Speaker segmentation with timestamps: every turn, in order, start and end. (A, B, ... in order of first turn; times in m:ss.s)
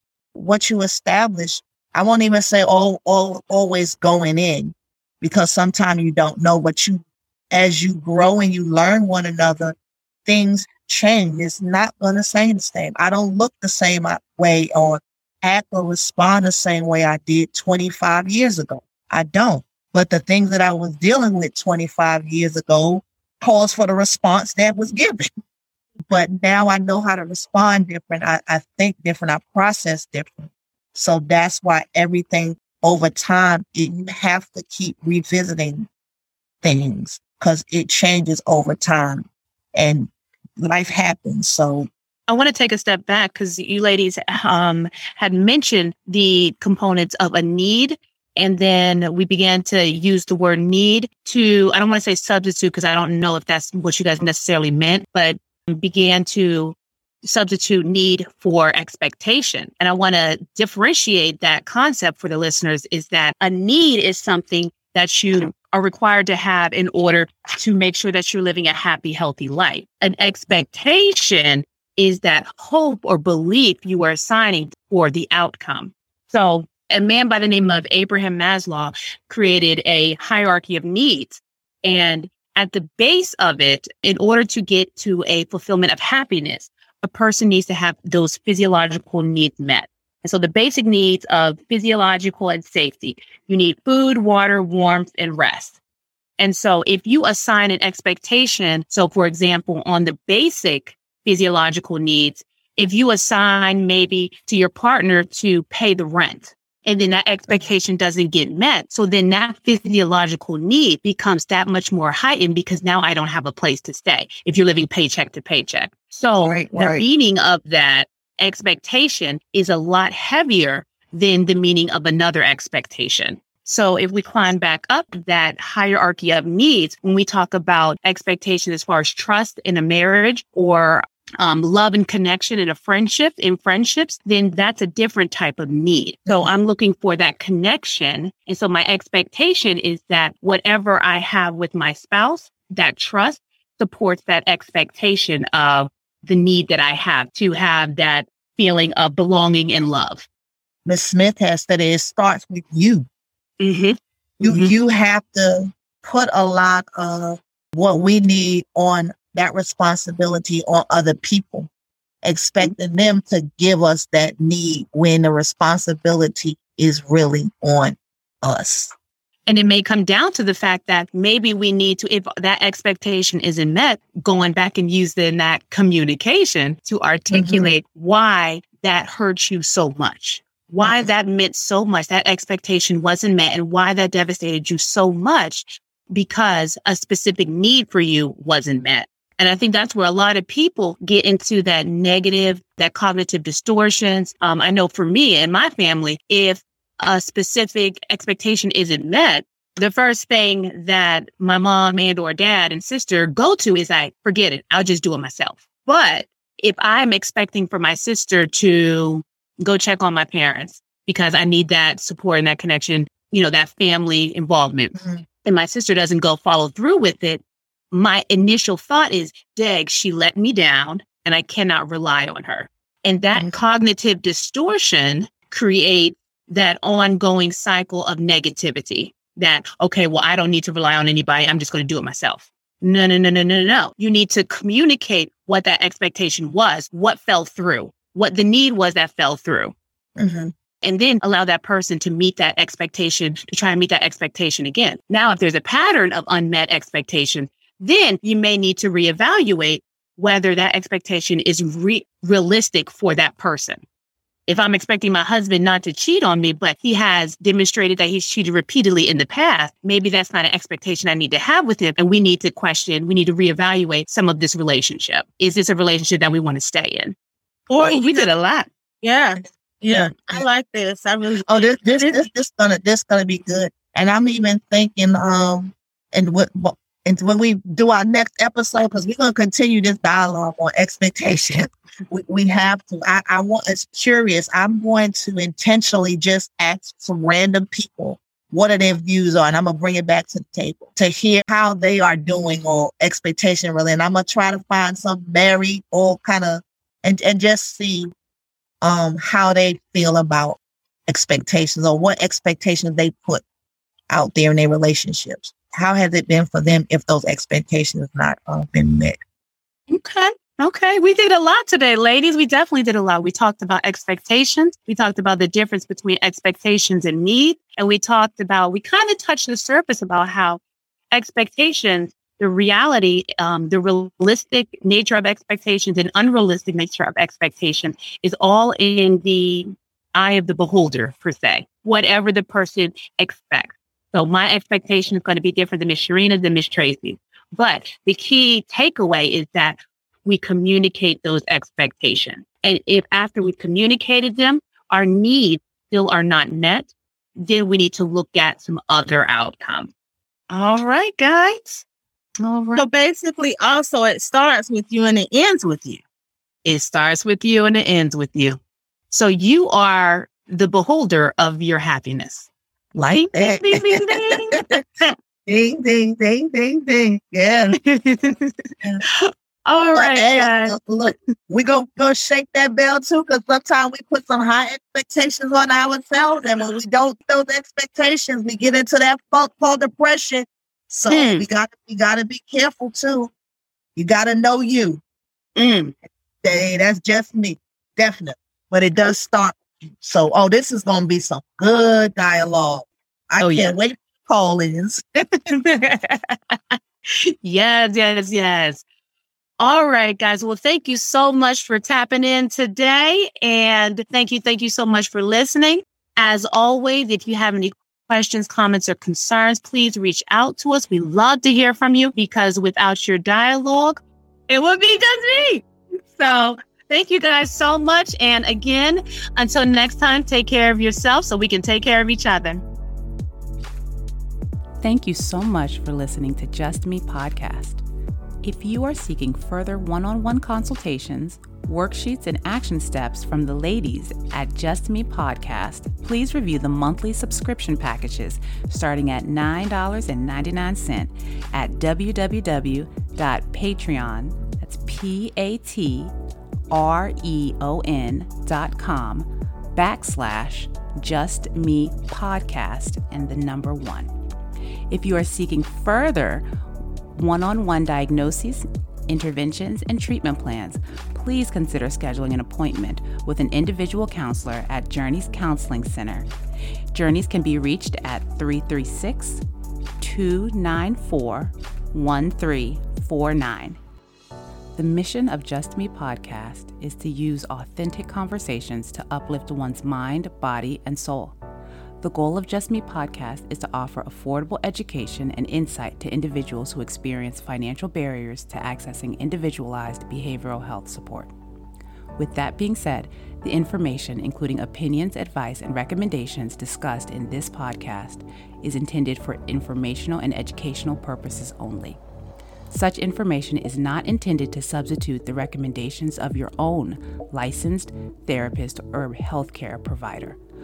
0:00.3-0:25.3 A
0:26.1-0:35.9 A
0:36.6-0:41.9 A
0:42.3-1:35.8 B
1:36.4-2:30.3 B
1:56.4-1:57.0 A
2:30.8-2:33.1 A
2:33.6-2:34.7 B
2:34.4-2:41.7 A
2:42.2-2:48.9 A
2:49.5-3:59.8 B
2:57.3-2:57.7 A
3:00.8-3:01.1 A
3:35.0-3:35.2 A
4:00.2-4:00.5 A
4:00.8-4:13.8 B
4:14.5-4:27.2 B
4:27.7-4:28.3 C
4:27.8-4:28.7 B
4:29.0-4:32.3 C
4:29.9-4:30.4 A
4:31.4-4:58.1 A
4:58.8-5:03.4 A
5:04.1-5:09.2 A
5:09.9-5:20.6 B
5:21.1-5:49.9 B
5:50.5-5:51.8 B
5:52.4-5:52.8 B
5:52.8-5:56.0 C
5:56.6-5:58.6 B
5:59.1-6:02.5 B
6:02.9-6:04.8 A
6:03.1-6:05.1 B
6:05.5-6:07.8 A
6:07.8-6:08.5 B
6:09.1-6:10.8 B
6:09.9-6:23.3 A
6:21.1-6:21.4 B
6:24.0-6:25.0 A
6:25.6-6:25.9 B
6:26.4-6:35.4 A
6:33.4-6:33.7 B
6:35.5-6:36.7 B
6:37.4-6:38.8 B
6:39.6-7:02.6 B
7:04.8-7:07.8 D
7:08.4-7:26.1 D
7:26.7-7:34.1 D
7:34.9-7:36.4 D
7:37.2-7:46.3 D
7:46.9-7:49.4 D
7:50.0-7:53.8 D
7:54.8-8:01.4 D
8:02.0-8:11.3 D
8:12.2-8:22.0 D
8:22.7-8:30.4 D